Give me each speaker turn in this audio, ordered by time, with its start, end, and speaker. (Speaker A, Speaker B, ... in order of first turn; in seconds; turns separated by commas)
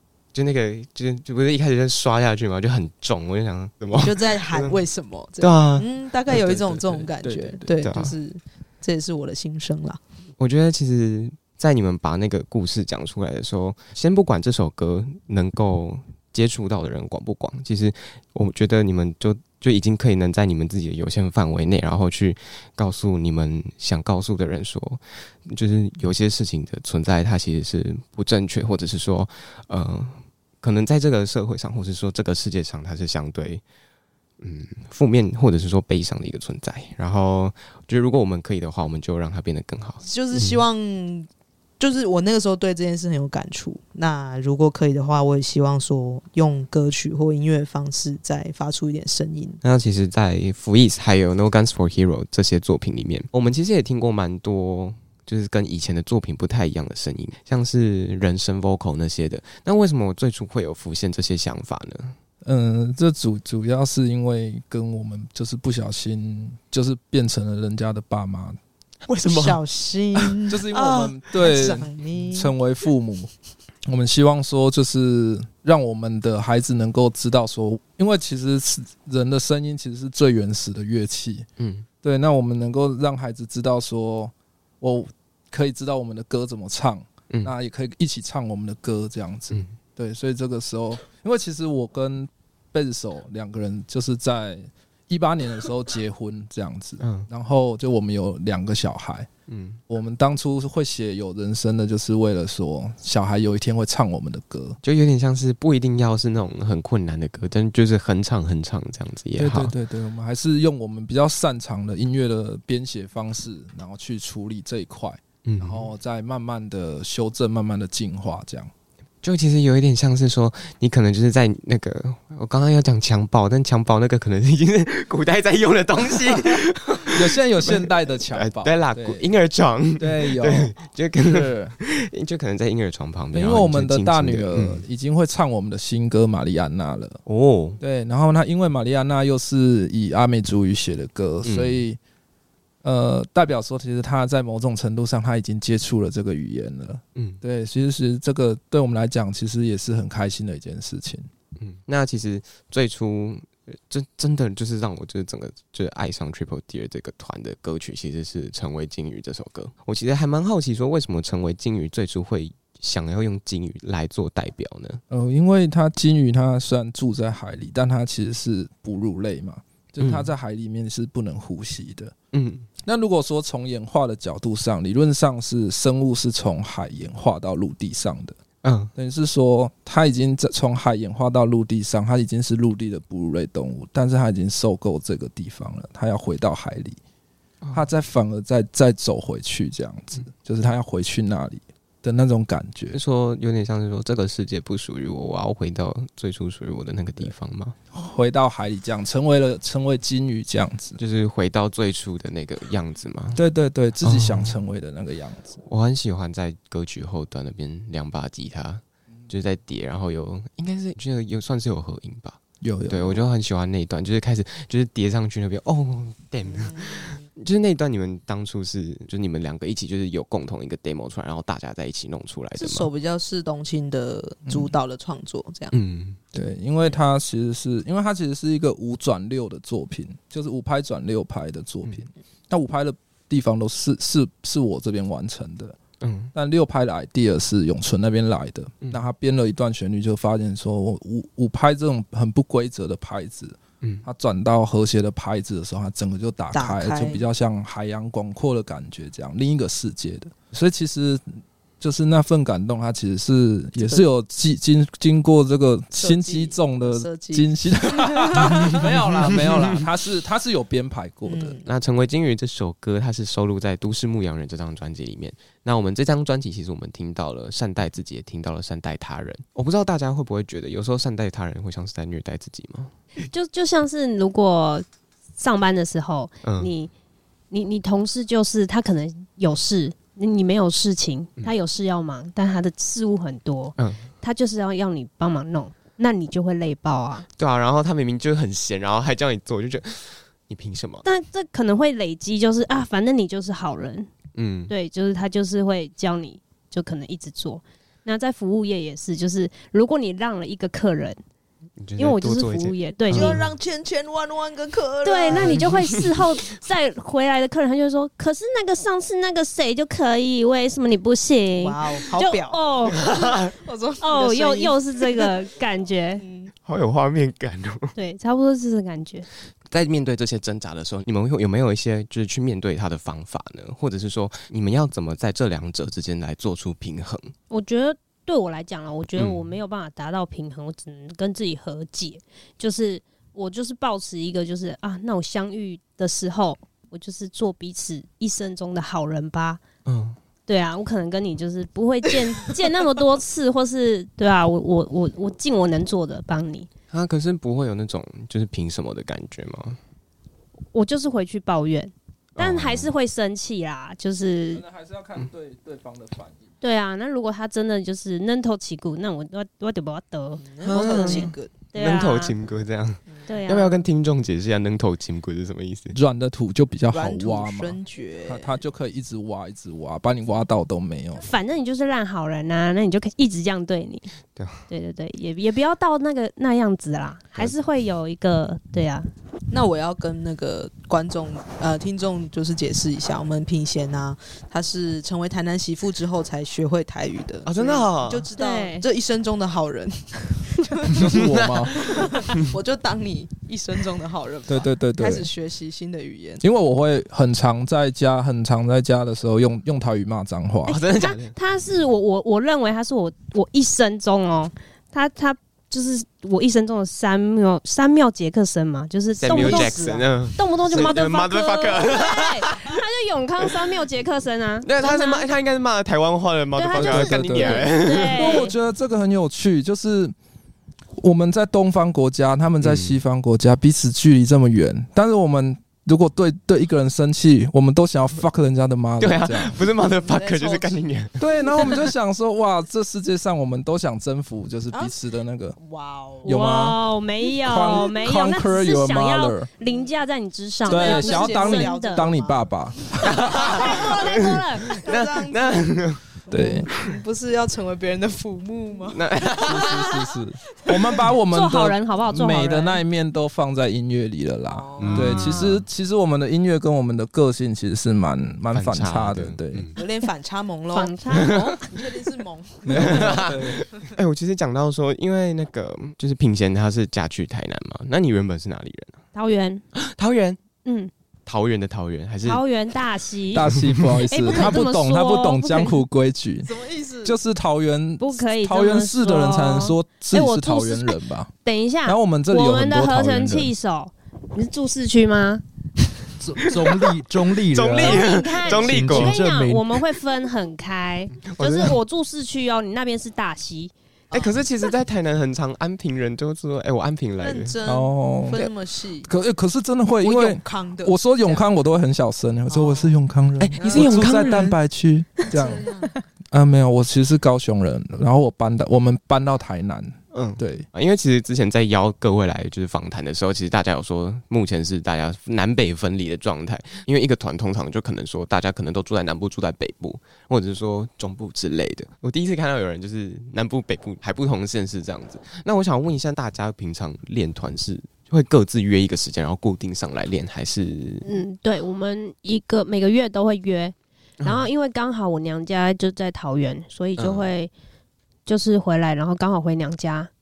Speaker A: 0.3-4.8, Speaker B: 4.0-10.0, Speaker A: 5.4-5.9, Speaker C: 6.3-7.7, Speaker A: 7.8-8.1, Speaker A: 10.4-33.6, Speaker A: 34.4-40.6, Speaker B: 40.0-41.3, Speaker B: 41.8-49.6, Speaker A: 49.6-62.1, Speaker C: 62.4-68.6, Speaker A: 69.1-69.6, Speaker B: 69.2-72.5, Speaker A: 70.1-71.1, Speaker C: 70.5-73.3, Speaker C: 73.8-81.5, Speaker A: 81.6-81.8, Speaker C: 82.0-99.3, Speaker A: 97.0-97.3, Speaker A: 99.5-99.8, Speaker C: 99.9-104.8, Speaker A: 104.8-109.7, Speaker C: 109.4-118.7, Speaker A: 115.4-115.9, Speaker A: 119.2-134.8, Speaker C: 127.1-129.2, Speaker C: 130.0-130.7, Speaker C: 131.2-131.7, Speaker C: 133.3-137.2, Speaker A: 137.2-137.8, Speaker C: 137.8-142.0, Speaker A: 141.4-141.8, Speaker C: 142.8-151.3, Speaker A: 151.6-165.0, Speaker C: 165.1-172.1, Speaker A: 170.0-170.3, Speaker A: 172.3-172.7, Speaker C: 172.8-178.4, Speaker A: 178.6-178.9, Speaker C: 178.9-187.0, Speaker C: 187.7-193.0, Speaker A: 192.9-197.8, Speaker C: 197.9-201.0, Speaker A: 201.0-203.4, Speaker C: 203.3-205.6, Speaker A: 204.0-204.6, Speaker A: 205.6-222.9, Speaker C: 212.6-213.2, Speaker B: 216.4-217.2, Speaker B: 222.6-225.7, Speaker A: 225.7-226.2, Speaker C: 226.3-235.8, Speaker A: 236.0-236.3, Speaker C: 236.3-261.6, Speaker B: 246.5-247.2, Speaker B: 255.9-258.9, Speaker B: 261.2-261.6, Speaker A: 261.6-272.9, Speaker D: 273.2-274.8, Speaker D: 275.4-276.9, Speaker A: 276.4-276.7, Speaker D: 277.5-287.2, Speaker A: 287.4-291.0, Speaker D: 291.0-294.1, Speaker A: 294.3-294.7, Speaker D: 294.7-301.2, Speaker A: 301.8-303.5, Speaker D: 302.0-303.4, Speaker B: 303.1-305.6, Speaker D: 305.0-313.0, Speaker A: 305.3-306.0, Speaker B: 311.6-315.4, Speaker A: 313.0-313.4, Speaker D: 314.0-316.2, Speaker B: 316.2-316.5, Speaker A: 316.6-317.9, Speaker D: 317.9-319.3, Speaker A: 319.7-327.3, Speaker D: 327.5-339.6, Speaker A: 329.2-329.5, Speaker A: 339.8-340.2, Speaker D: 340.5-346.7, Speaker A: 346.9-349.8, Speaker D: 350.7-354.6, Speaker A: 352.4-352.9, Speaker C: 354.5-356.5, Speaker D: 356.6-362.3, Speaker B: 360.4-361.5, Speaker A: 360.6-365.9, Speaker D: 363.2-363.8, Speaker C: 365.9-371.2, Speaker B: 366.9-368.6, Speaker D: 371.2-374.1, Speaker A: 374.3-374.6, Speaker D: 374.7-379.1, Speaker B: 379.5-396.4, Speaker A: 387.4-388.3, Speaker D: 388.4-388.8, Speaker C: 390.9-391.9, Speaker A: 391.1-392.4, Speaker C: 394.5-395.3, Speaker C: 396.4-400.8, Speaker A: 400.7-401.3, Speaker D: 400.9-415.2, Speaker A: 409.2-412.7, Speaker B: 409.3-410.0, Speaker A: 414.6-418.3, Speaker D: 416.5-418.5, Speaker C: 416.7-420.1, Speaker C: 421.0-429.6, Speaker A: 422.6-422.9, Speaker A: 429.0-431.7, Speaker B: 430.0-430.8, Speaker C: 431.2-435.6, Speaker B: 435.6-436.3, Speaker C: 436.2-436.8, Speaker D: 436.2-442.1, Speaker C: 437.4-439.5, Speaker B: 440.6-442.4, Speaker C: 440.7-443.1, Speaker B: 443.0-445.6, Speaker A: 443.0-446.0, Speaker D: 443.3-444.8, Speaker B: 446.3-450.0, Speaker C: 446.3-446.7, Speaker A: 448.9-449.9, Speaker C: 449.4-459.7, Speaker D: 451.3-452.8, Speaker B: 454.5-455.5, Speaker A: 454.8-455.6, Speaker A: 458.5-459.8, Speaker B: 459.8-463.3, Speaker D: 460.7-461.4, Speaker C: 462.6-463.6, Speaker A: 462.7-469.0, Speaker D: 469.1-469.6, Speaker A: 469.7-470.4, Speaker D: 470.6-470.9, Speaker A: 471.2-472.4, Speaker D: 472.2-473.5, Speaker C: 473.3-476.5, Speaker A: 473.5-473.9, Speaker D: 474.1-475.7, Speaker B: 476.4-477.1, Speaker C: 477.0-481.3, Speaker D: 478.0-485.4, Speaker C: 481.9-483.5, Speaker E: 486.2-489.7, Speaker A: 486.4-486.9, Speaker A: 487.5-489.1, Speaker D: 487.8-493.7, Speaker A: 491.2-491.8, Speaker A: 494.1-497.5, Speaker B: 497.2-499.1, Speaker C: 497.6-498.4, Speaker C: 499.0-505.6, Speaker B: 500.0-501.5, Speaker B: 502.5-502.9, Speaker A: 503.4-504.5, Speaker B: 503.6-504.5, Speaker B: 505.3-505.9, Speaker C: 506.3-510.6, Speaker A: 510.1-531.1, Speaker D: 531.0-537.5, Speaker A: 534.2-534.5, Speaker A: 537.0-537.3, Speaker D: 538.2-540.1